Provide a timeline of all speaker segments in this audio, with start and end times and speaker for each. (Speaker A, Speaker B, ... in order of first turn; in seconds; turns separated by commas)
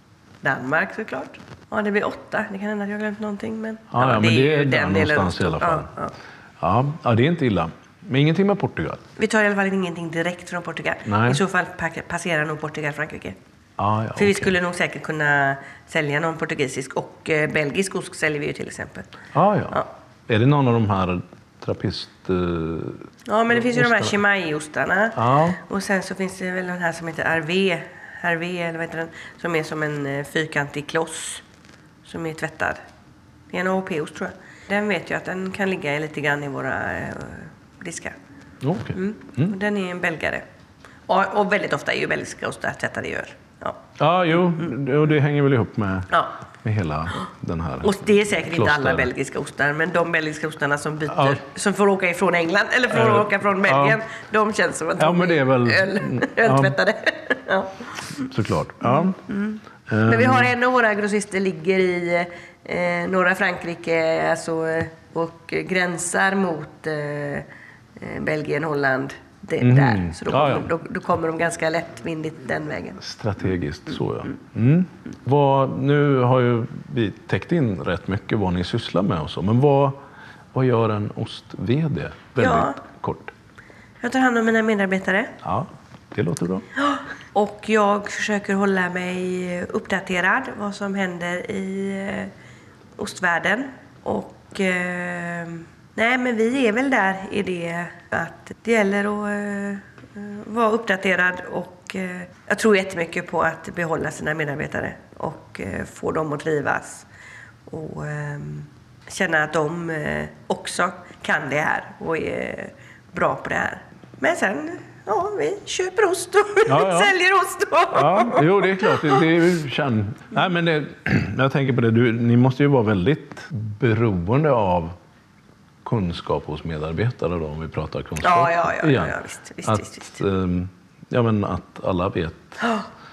Speaker A: 0.4-6.1, Speaker B: 3.9-5.9, Speaker B: 6.6-9.0, Speaker A: 9.2-13.3, Speaker B: 11.1-11.4, Speaker B: 13.8-14.5, Speaker A: 14.2-19.1, Speaker B: 19.3-24.2, Speaker A: 23.3-31.4, Speaker B: 25.1-25.6, Speaker A: 32.0-32.8, Speaker A: 33.5-38.1, Speaker B: 38.6-39.5, Speaker A: 38.9-40.4, Speaker A: 41.1-43.8, Speaker B: 44.0-49.1, Speaker A: 44.3-44.7, Speaker A: 47.8-58.3, Speaker B: 51.1-51.4, Speaker B: 52.9-54.0, Speaker B: 55.0-56.8, Speaker B: 58.2-59.2, Speaker A: 58.8-67.5, Speaker B: 59.9-60.5, Speaker A: 68.0-73.0, Speaker B: 69.6-70.7, Speaker B: 73.0-80.0, Speaker B: 80.5-83.3, Speaker A: 82.4-82.8, Speaker A: 84.0-85.3, Speaker B: 85.4-86.7, Speaker A: 86.8-92.3, Speaker A: 93.0-107.1, Speaker A: 107.7-119.2, Speaker B: 116.7-117.1, Speaker B: 117.9-124.9, Speaker B: 125.8-132.6, Speaker A: 128.2-130.2, Speaker A: 132.6-132.8